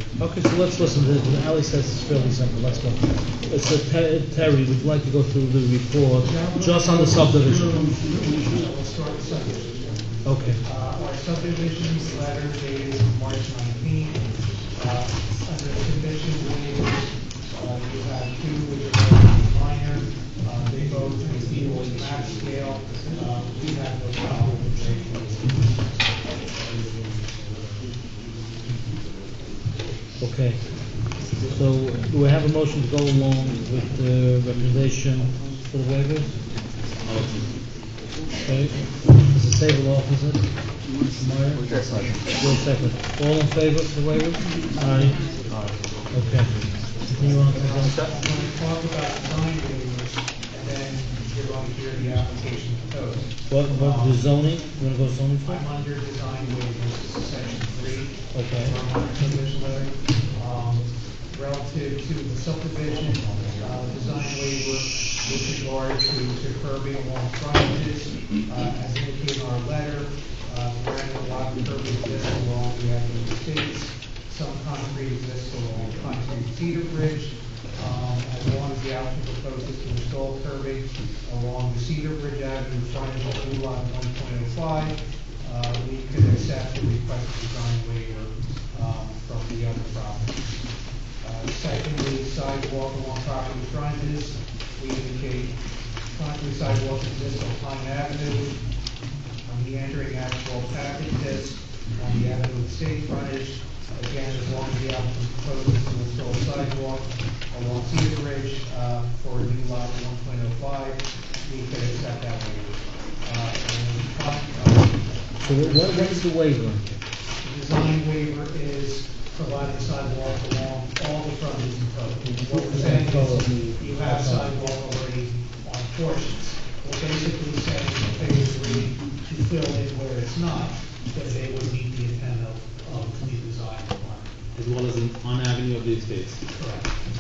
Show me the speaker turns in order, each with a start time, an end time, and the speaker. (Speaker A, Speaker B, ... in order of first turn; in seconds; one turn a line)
Speaker A: 0.2-7.7
Speaker B: 6.2-10.1
Speaker A: 10.2-10.6
Speaker B: 10.6-14.2
Speaker B: 14.8-26.2
Speaker A: 30.2-30.8
Speaker A: 31.6-36.3
Speaker C: 37.1-37.5
Speaker A: 38.5-40.4
Speaker A: 41.1-45.3
Speaker A: 46.1-48.1
Speaker B: 47.3-54.2
Speaker A: 53.5-55.6
Speaker B: 55.5-90.4
Speaker A: 58.3-58.7
Speaker B: 91.2-95.6
Speaker B: 96.1-98.6
Speaker B: 99.5-116.3
Speaker A: 115.4-117.0
Speaker B: 117.4-134.3
Speaker A: 122.5-124.5
Speaker C: 134.6-136.4
Speaker B: 136.5-136.9